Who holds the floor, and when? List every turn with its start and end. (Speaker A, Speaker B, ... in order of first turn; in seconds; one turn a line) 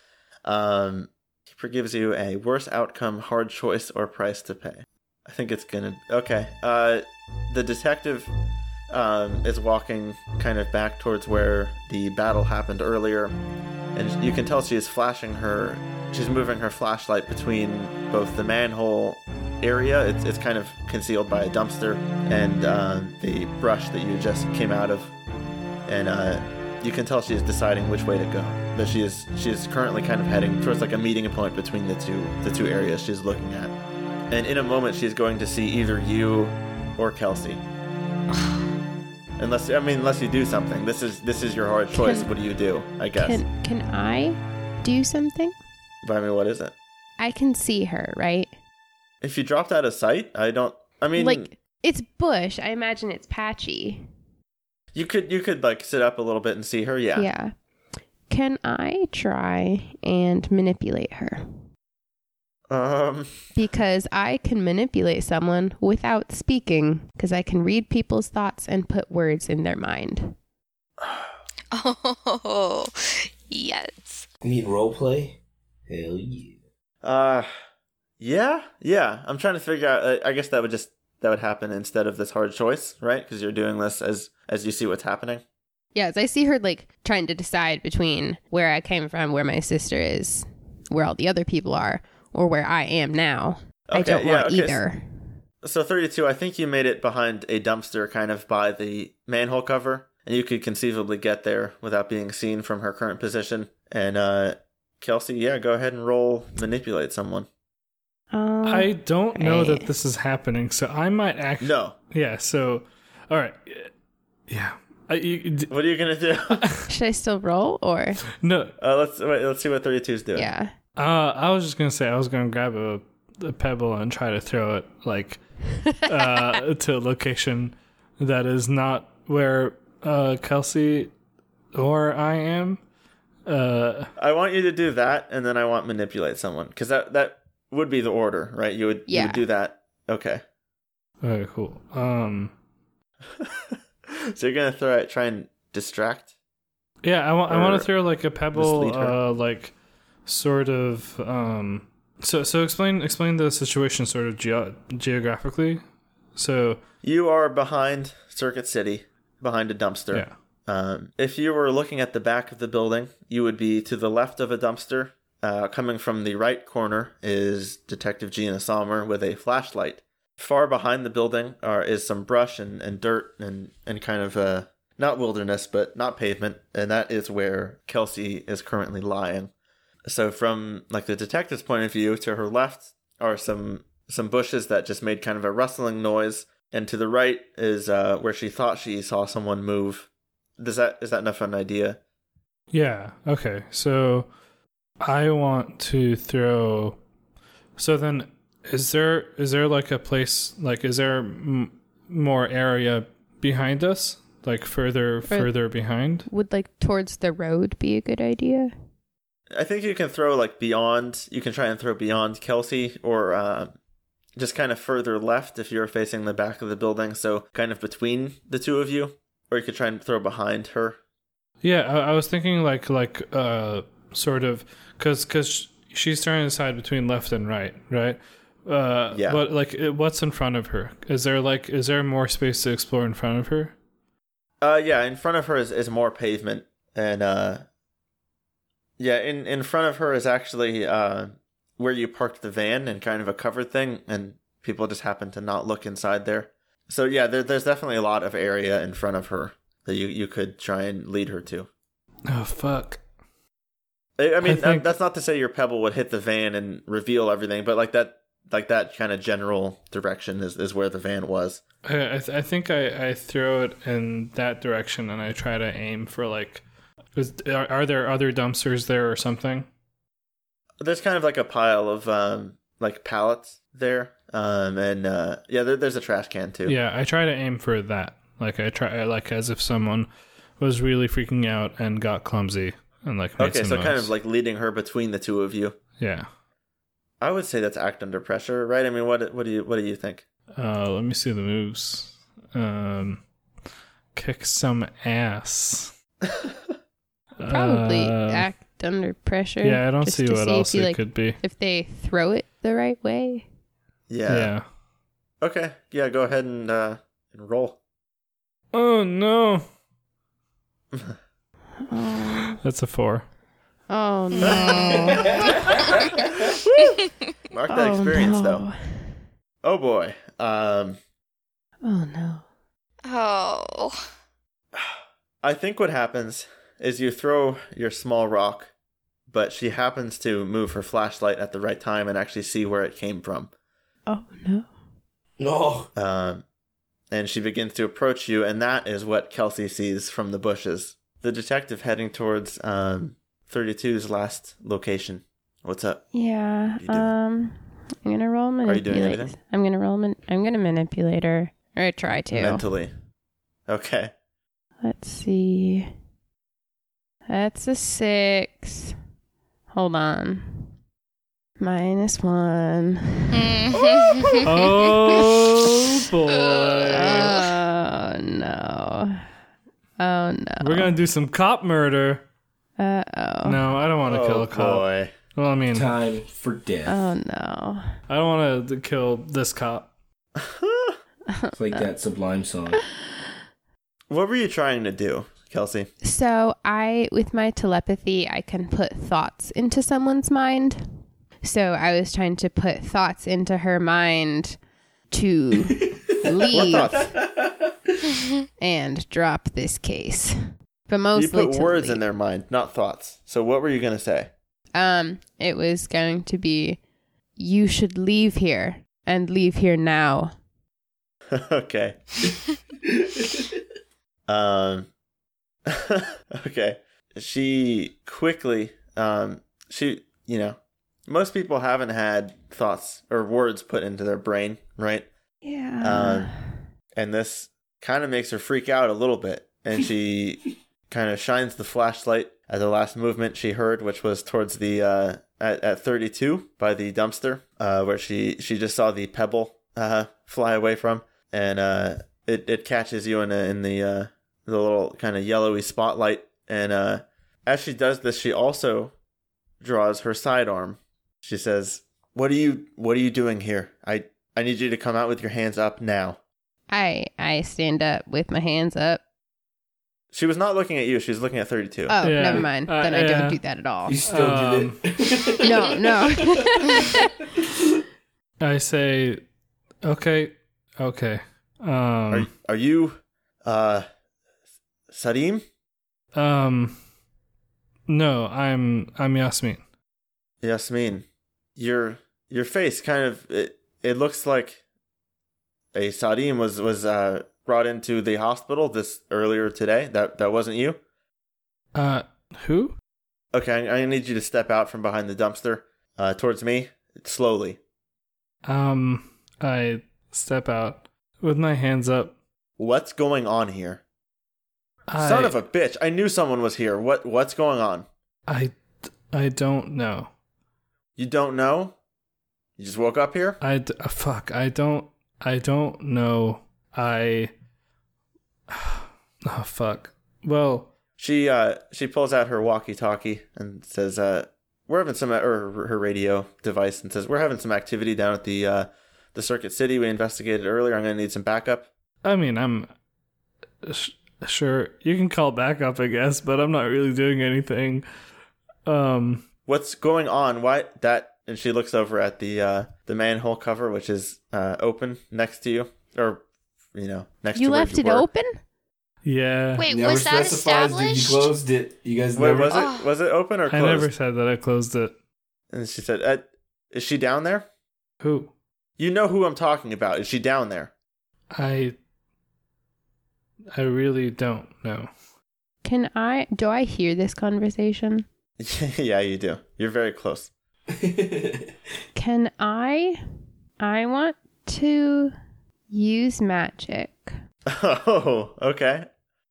Speaker A: 0.4-8.3
Speaker A: 8.9-13.3
Speaker A: 13.9-25.1
Speaker A: 25.9-33.7
Speaker A: 34.3-37.6
Speaker A: 39.4-43.4
Speaker B: 41.9-42.3
Speaker B: 43.2-45.5
Speaker A: 46.0-46.7
Speaker B: 47.2-48.5
Speaker A: 49.2-51.5
Speaker B: 51.2-54.0
Speaker A: 54.9-57.3
Speaker B: 57.1-57.5
Speaker B: 58.3-61.4
Speaker A: 62.7-63.3
Speaker B: 63.5-70.3
Speaker A: 71.0-71.3
Speaker C: 71.7-74.2
Speaker D: 74.4-76.6
Speaker A: 77.0-77.5
Speaker A: 78.2-85.4
Speaker B: 85.9-95.2
Speaker A: 93.9-94.8
Speaker A: 95.6-107.5
Speaker B: 108.3-109.9
Speaker E: 108.6-113.9
Speaker A: 111.6-112.0
Speaker E: 114.5-115.7
Speaker A: 115.7-116.6
Speaker E: 116.5-116.9
Speaker B: 116.9-118.2
Speaker E: 118.4-118.8
Speaker A: 118.8-120.5
Speaker B: 120.4-120.7
Speaker E: 121.0-131.1
Speaker E: 131.8-132.8
Speaker E: 133.4-134.1
Speaker A: 134.2-140.4
Speaker B: 139.1-139.4
Speaker E: 141.2-142.5
Speaker A: 143.4-146.3
Speaker E: 147.0-149.7
Speaker A: 147.5-147.9
Speaker A: 148.5-149.2
Speaker E: 150.2-155.8
Speaker E: 156.4-156.8
Speaker A: 157.0-179.5
Speaker A: 180.1-192.0
Speaker E: 192.7-194.3
Speaker E: 195.0-197.0
Speaker E: 197.8-206.3
Speaker B: 206.3-208.7
Speaker A: 209.5-213.8
Speaker A: 214.4-221.0
Speaker E: 221.6-233.7
Speaker A: 229.1-229.4
Speaker A: 234.6-237.6
Speaker A: 239.0-251.7
Speaker E: 252.3-253.0
Speaker A: 254.2-261.6
Speaker E: 254.4-254.9
Speaker E: 261.8-266.6
Speaker E: 267.1-269.7
Speaker A: 270.8-276.8
Speaker E: 276.7-280.1
Speaker E: 280.6-284.1
Speaker A: 283.4-285.8
Speaker E: 286.0-286.3
Speaker A: 287.2-290.2
Speaker E: 290.5-293.2
Speaker E: 294.1-295.9
Speaker A: 296.3-296.5
Speaker E: 297.4-298.5
Speaker B: 297.5-303.5
Speaker E: 299.6-301.4
Speaker A: 304.1-304.5
Speaker E: 304.3-304.6
Speaker A: 305.4-307.8
Speaker E: 308.7-309.6
Speaker B: 311.9-312.6
Speaker E: 312.5-313.2
Speaker B: 313.9-315.8
Speaker C: 314.3-315.2
Speaker D: 314.9-316.0
Speaker A: 316.6-317.0
Speaker A: 317.5-318.7
Speaker B: 317.7-319.2
Speaker A: 319.6-321.0
Speaker B: 321.8-322.4
Speaker C: 323.0-324.0
Speaker A: 324.8-328.7
Speaker A: 329.3-333.5
Speaker B: 334.1-334.7
Speaker D: 335.4-335.9
Speaker A: 335.9-336.4
Speaker A: 337.1-346.0
Speaker B: 346.1-352.6
Speaker A: 346.8-347.1
Speaker A: 348.6-349.3
Speaker A: 352.3-352.9
Speaker A: 353.7-354.1
Speaker B: 354.8-355.9
Speaker B: 357.3-358.9
Speaker B: 359.7-360.7
Speaker B: 361.6-365.1
Speaker C: 363.3-364.5
Speaker E: 364.4-367.4
Speaker C: 366.4-367.5
Speaker B: 366.9-369.2
Speaker B: 370.0-370.9
Speaker E: 370.6-372.2
Speaker B: 372.8-373.6
Speaker E: 373.4-375.9
Speaker A: 374.0-375.1
Speaker D: 375.7-377.0
Speaker B: 376.9-377.8
Speaker E: 378.1-379.9
Speaker A: 380.4-381.0
Speaker B: 381.3-381.9
Speaker D: 381.5-382.8
Speaker A: 384.1-385.9
Speaker B: 386.0-390.8
Speaker B: 391.4-394.6
Speaker B: 395.1-397.0
Speaker D: 395.6-397.9
Speaker A: 396.5-397.1
Speaker B: 398.6-400.3
Speaker B: 400.9-402.0
Speaker A: 401.1-404.3
Speaker B: 404.8-406.8
Speaker B: 407.4-410.3
Speaker A: 411.3-412.0
Speaker D: 412.9-413.5
Speaker A: 414.3-414.9
Speaker A: 415.7-425.1
Speaker B: 425.4-426.5
Speaker A: 425.8-426.3
Speaker A: 426.9-448.9
Speaker A: 449.6-456.2
Speaker B: 456.7-459.0
Speaker A: 460.1-462.0
Speaker B: 461.9-464.0
Speaker E: 462.0-463.4
Speaker D: 463.8-467.0
Speaker E: 464.1-464.8
Speaker B: 465.4-467.1
Speaker E: 468.4-469.2
Speaker E: 469.8-472.3
Speaker A: 472.1-473.8
Speaker A: 474.9-475.4
Speaker E: 476.1-476.8
Speaker E: 477.9-479.6
Speaker A: 480.4-481.0
Speaker A: 481.6-484.6
Speaker A: 485.7-490.8
Speaker E: 491.8-492.8
Speaker A: 493.3-497.6
Speaker E: 498.4-502.1
Speaker A: 502.6-503.8
Speaker E: 504.9-505.3
Speaker A: 505.0-507.9
Speaker E: 508.3-508.6
Speaker E: 509.1-510.1
Speaker A: 511.0-511.8
Speaker A: 512.6-513.4
Speaker E: 513.4-517.3
Speaker E: 518.5-520.7
Speaker A: 521.0-531.7
Speaker E: 532.0-532.7
Speaker E: 533.6-537.8
Speaker E: 538.6-539.2
Speaker A: 539.5-546.2
Speaker A: 546.8-548.1
Speaker B: 547.4-548.4
Speaker E: 549.0-549.7
Speaker C: 549.5-551.3
Speaker D: 549.7-552.5
Speaker A: 552.1-553.9
Speaker C: 552.5-552.9
Speaker E: 553.5-554.9
Speaker A: 555.5-557.5
Speaker E: 558.0-558.3
Speaker A: 558.8-560.7
Speaker E: 561.3-561.8
Speaker E: 563.5-564.9
Speaker B: 565.6-568.0
Speaker A: 568.4-570.3
Speaker D: 570.7-571.5
Speaker B: 572.0-573.0
Speaker B: 573.6-575.1
Speaker B: 575.7-577.1
Speaker A: 577.5-578.9